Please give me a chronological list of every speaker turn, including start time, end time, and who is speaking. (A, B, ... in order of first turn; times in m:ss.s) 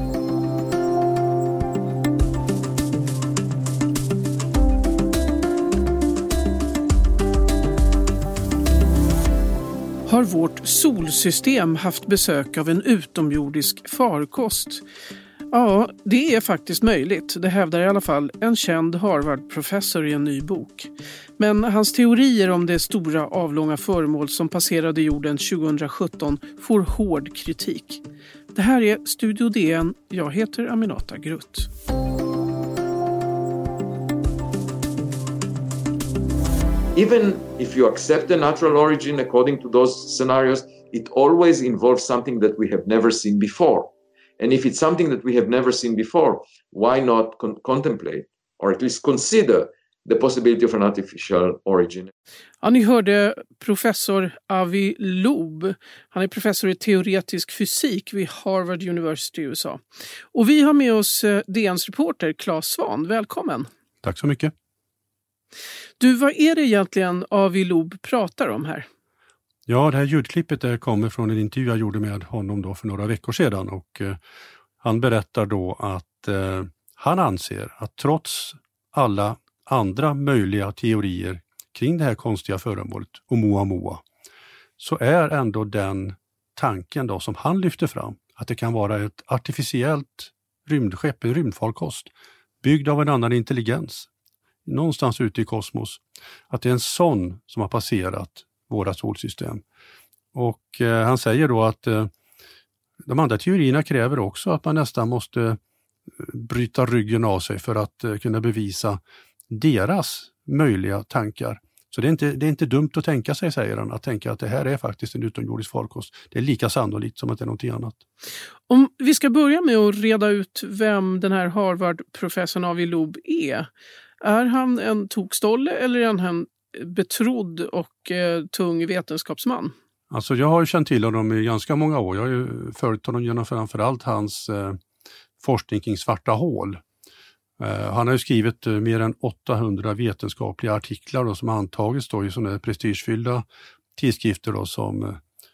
0:10.0-0:14.8 A
0:15.5-0:28.0 A
0:28.5-0:31.7 A
0:37.0-0:52.1 B
0:52.6-0:59.8 A
1:00.3-1:03.7 A
1:04.0-1:04.5 C
1:06.0-1:08.8 A
1:09.7-1:14.2 C
1:14.8-1:24.0 C
1:24.8-1:32.1 C
1:32.6-1:34.1 C
1:34.6-1:39.6 C
1:40.3-1:42.1 C
1:43.1-1:45.6 C
1:46.2-1:58.0 C
1:58.7-2:03.7 A
2:04.2-2:09.7 A
2:10.1-2:14.8 C
2:15.4-2:16.8 C
2:17.6-2:23.4 C
2:24.0-2:25.2 C